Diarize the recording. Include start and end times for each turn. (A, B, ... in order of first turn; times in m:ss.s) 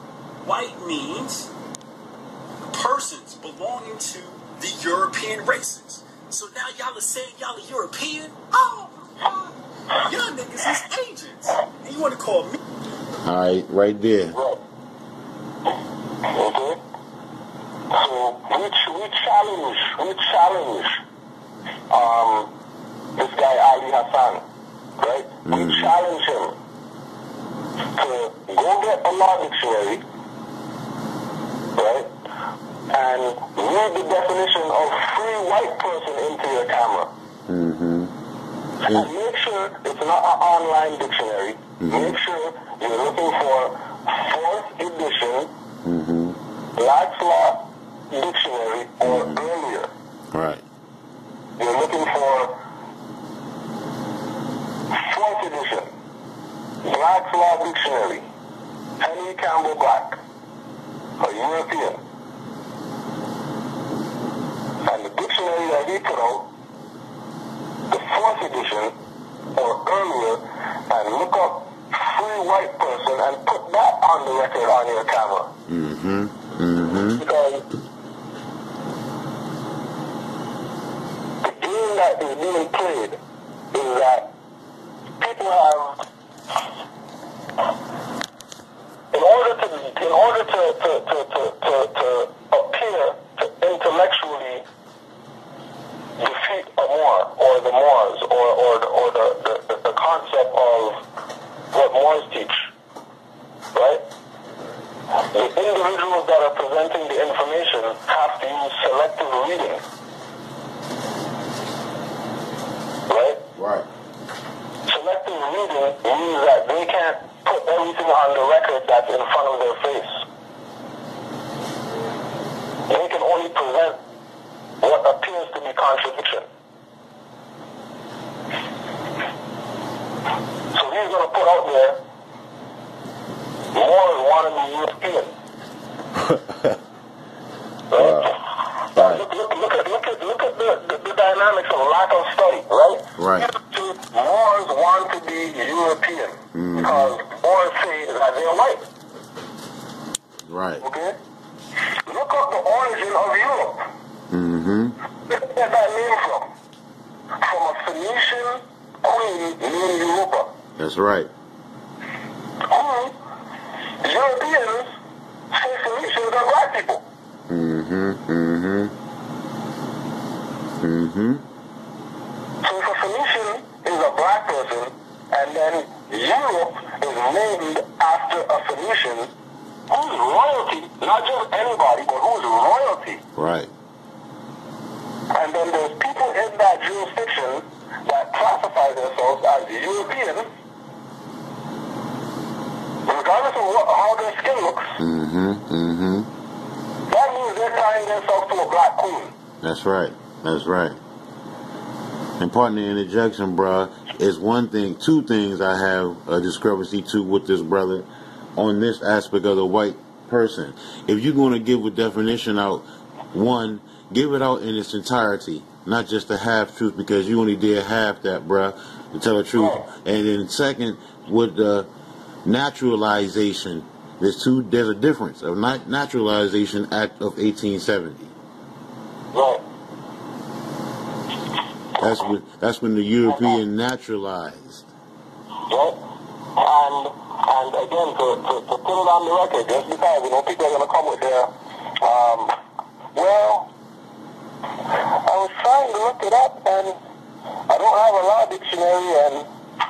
0:00.4-0:01.5 A
0:02.7-0:12.6 A
0:13.2-0:14.4 B
0:14.3-0:14.6 C
0:16.3-0:16.8 C
0:17.9-0:21.0 C
0:21.9-0:22.5 C
0:23.2-0:24.4 C
0:25.0-0:26.6 C
0:25.4-0:25.9 B
0:28.0-0:30.0 C
0:31.7-0:32.1 C
0:32.9-0:37.1 C
0:37.5-0:38.1 B
0:38.8-0:45.5 C
0:41.8-0:42.2 B
0:45.8-0:46.4 B
0:46.8-0:49.9 C
0:49.0-0:49.4 B
0:50.3-0:50.6 B
0:51.6-0:52.6 C
0:54.9-0:55.9 C
0:56.8-0:58.2 C
0:59.0-1:00.2 C
1:01.2-1:02.0 C
1:04.8-1:06.5 C
1:07.9-1:08.9 C
1:09.6-1:15.5 C
1:15.7-1:17.2 B
1:17.2-1:17.6 C
1:21.4-1:23.2 C
1:23.7-1:24.3 C
1:25.2-1:26.0 C
1:29.1-1:34.6 C
1:36.2-1:41.0 C
1:41.7-1:42.7 C
1:43.7-1:44.0 C
1:45.2-1:49.8 C
1:53.1-1:53.4 C
1:53.6-1:53.9 B
1:54.9-2:00.2 C
2:02.9-2:04.0 C
2:04.8-2:06.4 C
2:10.7-2:12.0 C
2:13.7-2:15.3 C
2:16.2-2:16.8 B
2:17.9-2:28.8 C
2:17.9-2:18.4 B
2:18.9-2:19.2 B
2:23.2-2:23.5 B
2:26.5-2:27.1 B
2:30.4-2:30.8 B
2:30.8-2:31.2 C
2:32.0-2:33.9 C
2:34.3-2:35.0 B
2:35.3-2:36.5 C
2:37.4-2:40.5 C
2:40.8-2:41.3 B
2:42.7-2:43.1 C
2:44.0-2:44.9 C
2:45.5-2:47.0 C
2:47.5-2:48.9 B
2:50.8-2:51.4 B
2:52.6-2:59.3 C
2:59.9-3:03.2 C
3:03.3-3:03.7 B
3:05.3-3:10.5 C
3:13.0-3:15.0 C
3:15.0-3:16.3 B
3:17.1-3:19.3 C
3:19.6-3:21.0 B
3:22.4-3:41.9 B
3:39.5-3:39.8 C
3:42.4-3:48.3 B
3:49.3-3:49.6 C
3:52.0-3:54.9 B
3:53.2-3:53.6 C
3:55.7-3:56.0 C
3:56.6-4:02.6 C
4:03.1-4:03.7 C
4:05.0-4:07.0 C
4:07.7-4:09.5 C